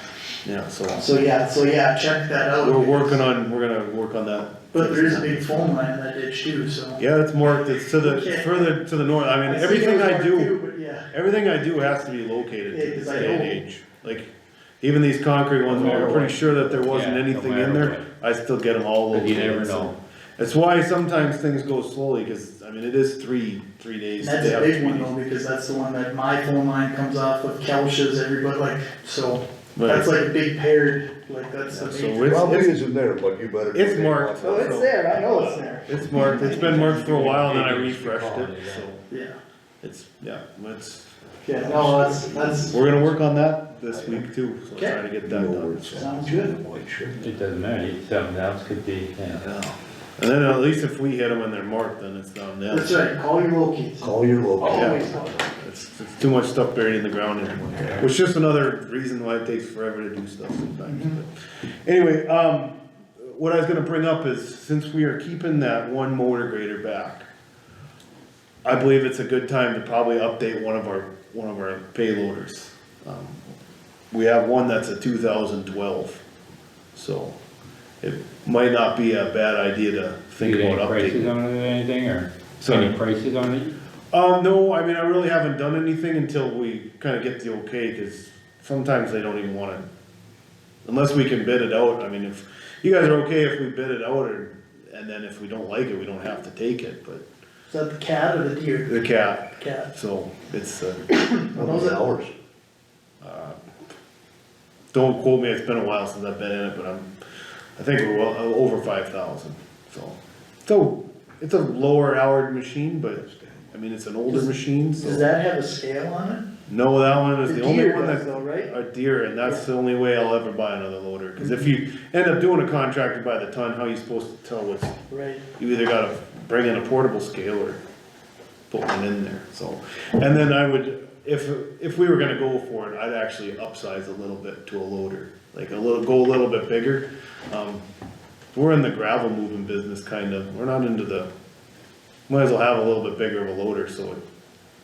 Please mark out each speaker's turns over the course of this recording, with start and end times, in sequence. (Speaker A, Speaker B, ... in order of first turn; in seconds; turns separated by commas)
Speaker A: 0.5-1.1, Speaker B: 0.9-3.2, Speaker A: 2.6-5.7, Speaker B: 4.7-7.0, Speaker A: 7.0-10.6, Speaker B: 7.6-8.8, Speaker B: 9.3-11.1, Speaker A: 11.1-14.3, Speaker B: 12.7-13.6, Speaker A: 14.8-25.1, Speaker C: 15.7-17.0, Speaker D: 15.7-18.1, Speaker D: 19.1-19.9, Speaker B: 24.2-32.4, Speaker A: 29.8-30.1, Speaker A: 31.7-32.7, Speaker C: 32.3-34.8, Speaker A: 33.7-39.0, Speaker B: 34.4-36.8, Speaker D: 36.1-38.9, Speaker B: 39.1-39.4, Speaker A: 39.8-41.1, Speaker B: 41.4-43.0, Speaker C: 41.6-42.7, Speaker A: 41.7-41.9, Speaker A: 42.7-46.0, Speaker C: 44.0-44.2, Speaker C: 45.2-47.2, Speaker B: 46.0-46.5, Speaker D: 47.2-49.4, Speaker A: 49.4-53.0, Speaker B: 52.7-55.5, Speaker C: 54.0-55.2, Speaker A: 54.7-61.3, Speaker B: 60.9-61.2, Speaker A: 61.9-67.3, Speaker A: 68.6-73.4, Speaker A: 74.1-76.2, Speaker A: 77.0-77.4, Speaker A: 78.0-81.3, Speaker D: 80.4-83.7, Speaker A: 82.6-83.0, Speaker A: 84.1-89.8, Speaker A: 90.9-97.2, Speaker B: 97.7-99.0, Speaker A: 98.9-101.1, Speaker B: 99.5-99.9, Speaker B: 101.1-102.0, Speaker C: 101.6-102.3, Speaker A: 103.2-103.6, Speaker A: 104.9-107.1, Speaker A: 107.8-115.3, Speaker C: 113.2-113.7, Speaker B: 114.3-116.4, Speaker A: 116.7-125.0, Speaker B: 117.5-118.7, Speaker B: 121.4-121.7, Speaker B: 125.1-125.4, Speaker A: 125.6-127.8, Speaker A: 128.7-137.8, Speaker A: 138.5-141.3, Speaker A: 142.3-144.2